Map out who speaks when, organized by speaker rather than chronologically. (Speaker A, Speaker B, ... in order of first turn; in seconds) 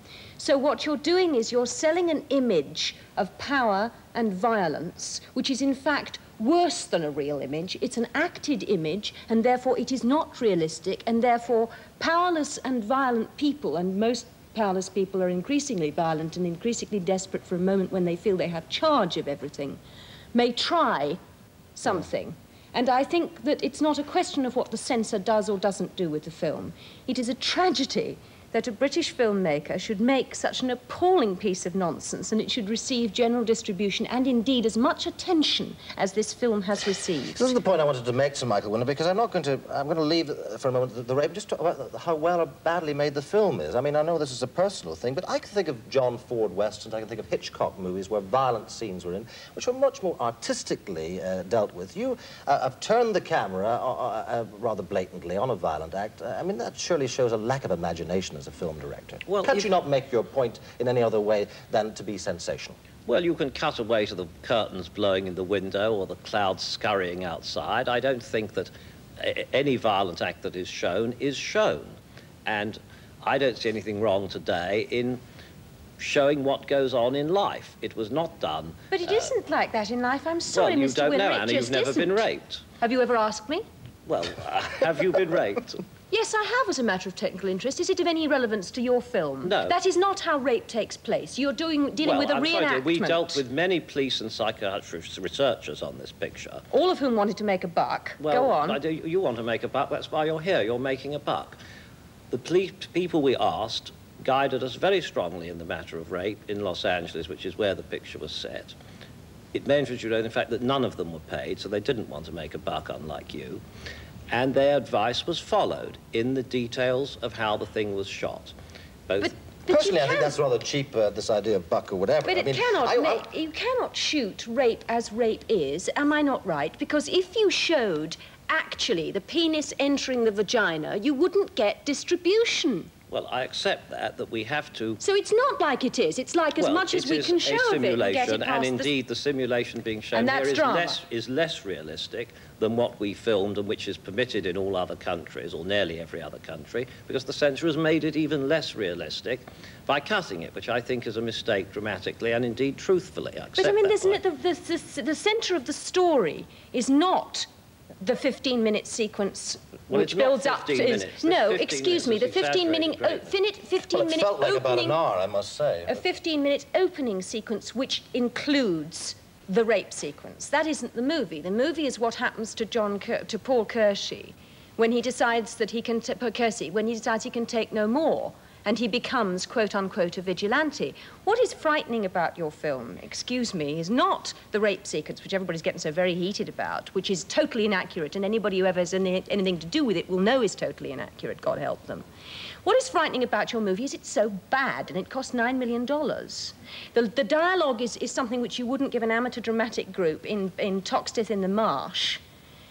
Speaker A: 0.4-19.8, 20.3-21.2, 21.8-37.5, 78.9-82.3, 82.8-83.7, 86.1-93.4, 96.7-98.8, 119.2-120.4, 122.2-132.9, 135.0-138.9, 140.1-141.0, 153.6-157.5, 158.0-165.0, 165.9-192.1, 192.6-202.2
Speaker B: 37.3-62.8, 119.7-123.3, 163.9-166.0
Speaker C: 59.3-59.7, 63.1-75.2, 76.0-79.3, 80.5-82.6, 84.1-85.8, 89.4-89.8, 92.0-96.6, 98.2-101.6, 102.3-108.8, 109.5-113.6, 114.3-118.5, 119.1-119.3, 133.1-135.0, 136.6-154.2, 159.9-163.3